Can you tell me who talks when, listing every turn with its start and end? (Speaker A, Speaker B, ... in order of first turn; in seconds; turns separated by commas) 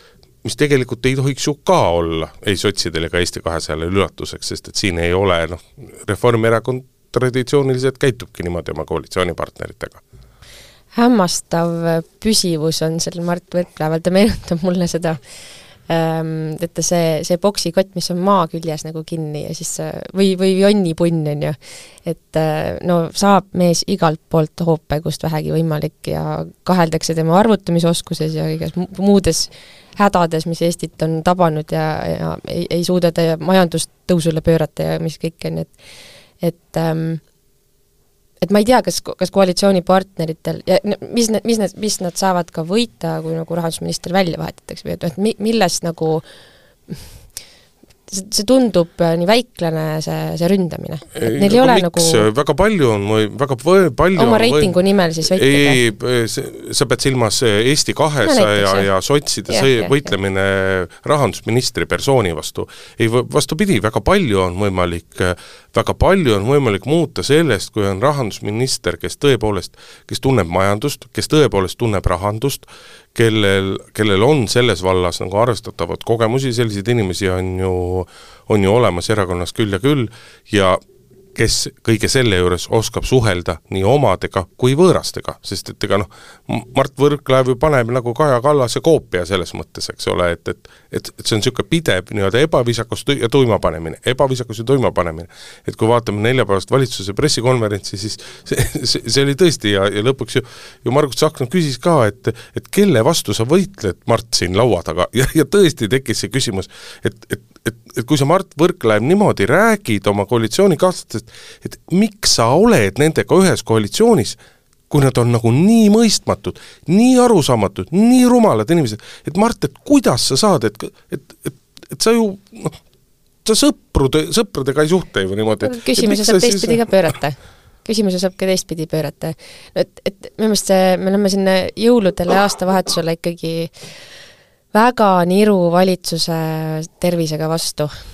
Speaker A: 0.4-10.0, Speaker B: 10.9-15.2, Speaker B: 15.9-35.7, Speaker B: 36.4-37.2, Speaker B: 38.4-46.2, Speaker B: 48.1-52.2, Speaker A: 51.1-80.8, Speaker B: 54.1-55.8, Speaker B: 58.2-58.9, Speaker B: 59.5-59.9, Speaker A: 81.3-114.4, Speaker A: 114.9-122.8, Speaker A: 123.4-126.8, Speaker B: 125.6-133.7, Speaker B: 134.7-137.9